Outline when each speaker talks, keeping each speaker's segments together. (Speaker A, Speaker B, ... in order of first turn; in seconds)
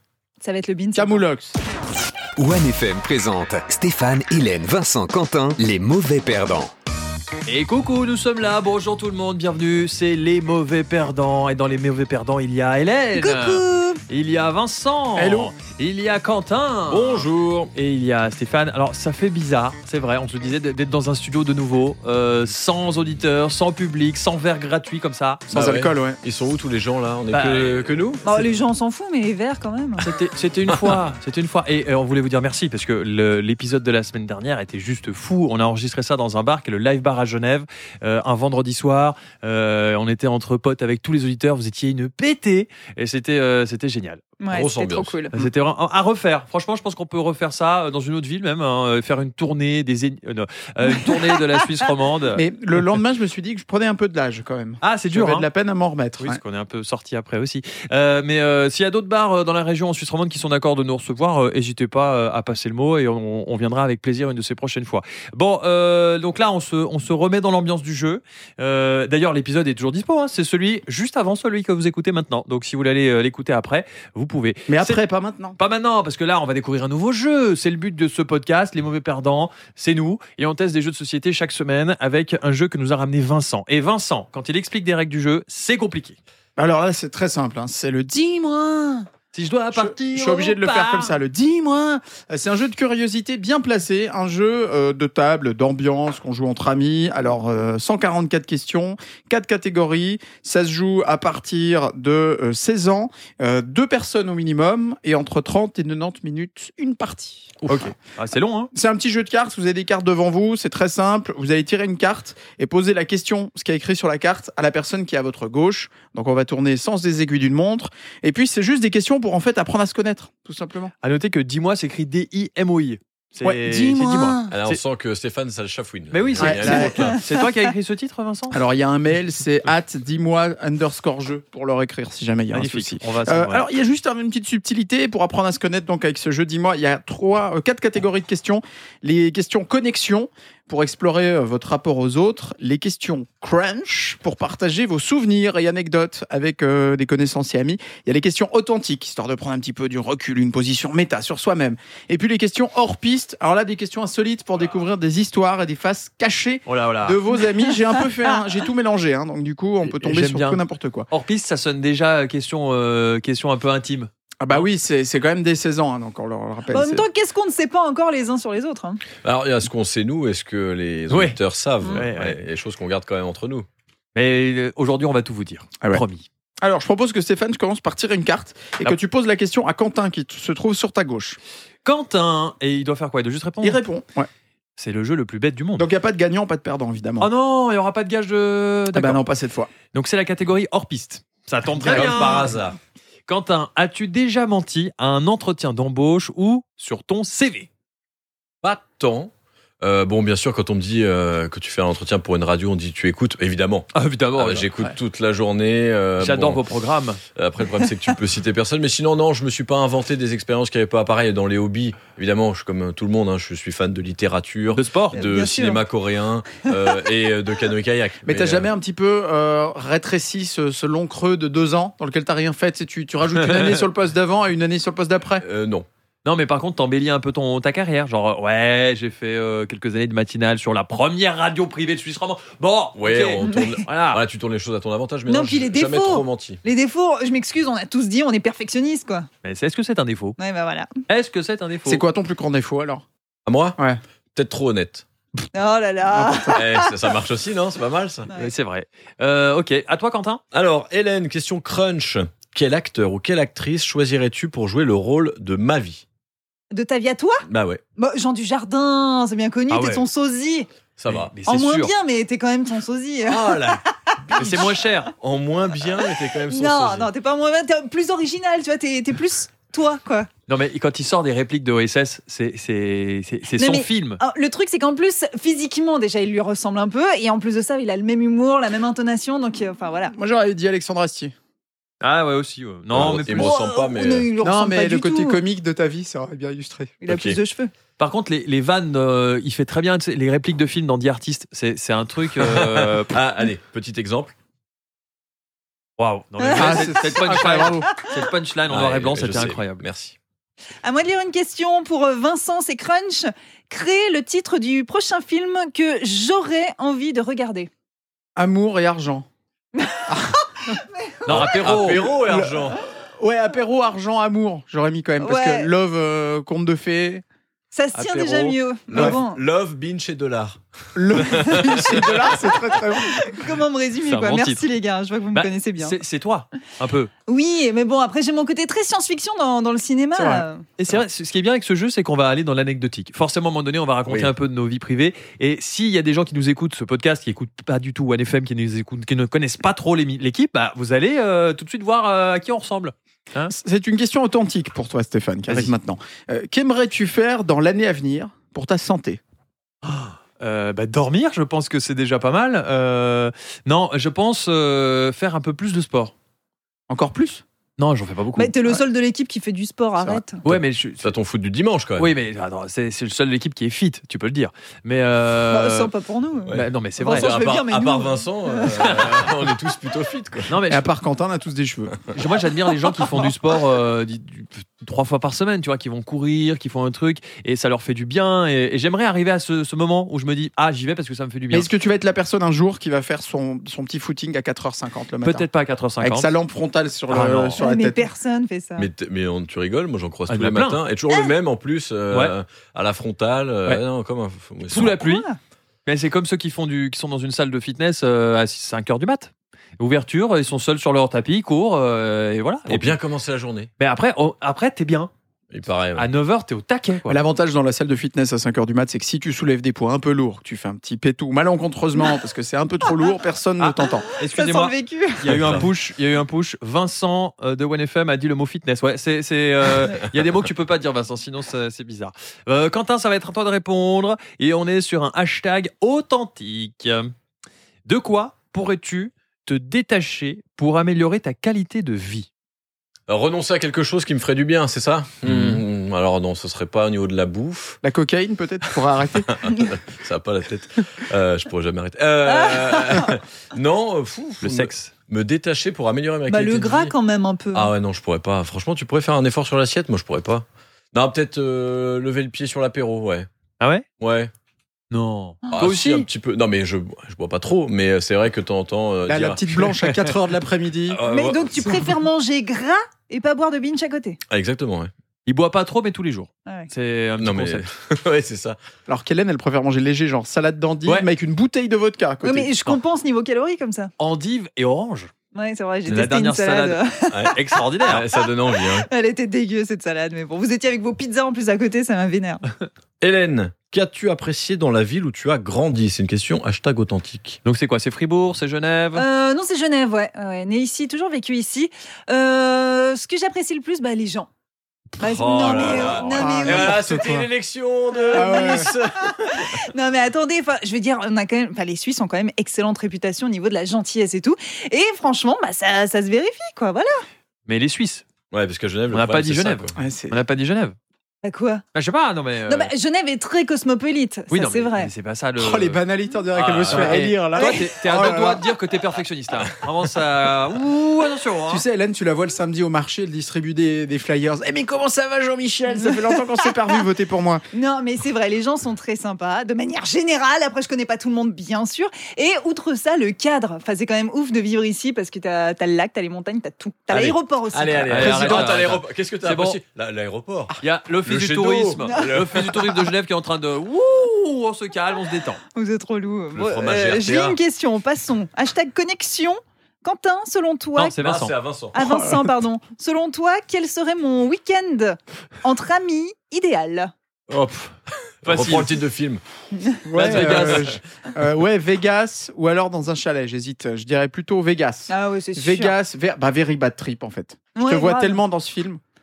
Speaker A: 0.4-1.2, 13.2-14.0, 28.2-30.1, 44.4-45.4, 51.0-51.9, 166.7-169.0, 215.1-215.8, 235.3-239.3, 240.4-241.0, 245.5-247.0, 256.7-257.4, 258.0-260.7, 261.5-264.2, 266.5-270.3, 273.5-280.1, 283.2-285.4, 287.0-287.7, 296.4-296.9, 300.8-307.7, 309.8-311.4, 315.2-315.7, 317.7-319.4, 323.1-325.9, 327.3-330.7, 358.4-360.4, 365.5-369.0, 387.6-388.9, 394.7-395.4, 414.0-415.4, 442.2-443.1, 446.3-447.7, 461.1-464.2, 472.2-473.9, 475.3-482.4, 488.9-494.3, 495.0-496.9, 497.9-507.0, 511.2-511.6, 512.5-514.9, 517.4-517.8, 525.7-526.8, 527.5-538.5, 545.5-551.0, 551.7-556.9, 564.9-565.7, 567.5-568.2
Speaker B: 0.9-1.5, 15.2-15.5, 25.5-26.2, 52.3-56.4, 74.7-75.6, 86.6-89.0, 89.7-107.8, 108.7-120.9, 123.4-124.6, 126.4-127.0, 128.5-161.1, 164.4-167.1, 176.6-181.4, 183.6-184.3, 185.8-187.3, 188.9-189.7, 191.8-192.6, 218.2-225.4, 241.8-243.0, 246.1-246.6, 280.1-281.3, 284.4-287.0, 296.6-297.9, 308.4-309.3, 310.1-310.7, 312.2-317.2, 320.9-323.6, 330.1-331.0, 343.5-349.2, 356.9-357.4, 370.6-372.0, 381.5-385.5, 386.0-388.1, 407.1-414.1, 437.8-439.3, 459.1-461.0, 468.9-472.5, 496.0-497.3, 498.1-498.7, 509.8-510.2, 515.4-518.4, 521.5-527.4, 551.8-552.3, 559.8-568.8
Speaker C: 2.4-6.7
Speaker D: 7.5-25.4, 27.3-27.9, 30.0-44.3, 45.3-52.4, 54.8-55.5, 56.2-75.0, 75.6-86.2, 89.3-91.2, 107.7-108.7, 121.0-124.8, 126.1-128.6, 132.5-133.7, 156.7-157.2, 159.8-164.1, 171.1-171.4, 171.9-172.4, 174.1-176.3, 181.8-183.8, 184.8-185.8, 187.2-189.2, 189.9-192.5, 193.3-197.7, 203.9-204.9, 206.2-207.2, 214.7-215.3, 226.2-234.2, 239.4-240.4, 241.1-242.0, 248.3-250.4, 259.7-260.0, 261.1-261.9, 264.4-265.1, 270.5-274.2, 282.0-283.6, 288.0-293.1, 296.0-299.8, 311.2-312.1, 317.9-318.6, 324.0-324.6, 325.3-327.1, 330.8-343.5, 345.5-345.7, 349.8-356.1, 357.8-358.8, 360.4-361.1, 362.0-365.9, 366.5-367.3, 368.7-369.2, 370.5-370.9, 372.1-381.7, 385.2-386.3, 387.1-387.6, 390.3-390.8, 394.7-395.3, 395.9-402.9, 403.8-405.1, 405.9-407.2, 413.6-427.1, 427.9-432.3, 435.2-435.6, 444.4-444.9, 453.6-453.8, 454.9-456.1, 459.7-460.1, 465.2-467.7, 474.0-475.1, 475.9-476.8, 477.3-478.1, 487.4-489.1, 507.5-508.0, 508.9-510.8, 511.7-512.7, 514.3-515.8, 516.6-521.6, 537.9-539.6, 540.6-545.4, 550.8-551.3, 558.2-558.8, 559.9-560.8
Speaker E: 16.9-17.7, 25.5-28.2, 44.5-45.2, 124.5-127.2, 169.2-173.7, 191.8-192.8, 198.6-206.6, 207.3-218.7, 225.4-225.9, 232.9-236.6, 243.4-243.8, 244.3-245.1, 246.5-248.3, 250.5-256.0, 257.5-257.8, 261.0-261.3, 263.2-267.1, 282.9-284.3, 287.1-287.4, 292.4-294.3, 298.7-300.1, 311.3-312.8, 318.9-322.3, 334.1-334.3, 360.5-362.1, 366.5-370.5, 388.8-394.9, 402.7-403.7, 405.5-406.1, 415.2-415.7, 433.1-437.8, 439.3-446.9, 447.5-453.3, 454.0-454.3, 455.5-459.4, 460.9-461.7, 464.3-464.9, 467.2-468.6, 477.1-478.9, 483.0-487.4, 495.0-499.6, 508.3-509.8, 516.3-517.1, 536.9-542.9, 546.4-547.4, 551.0-551.8, 557.3-559.2, 560.0-560.8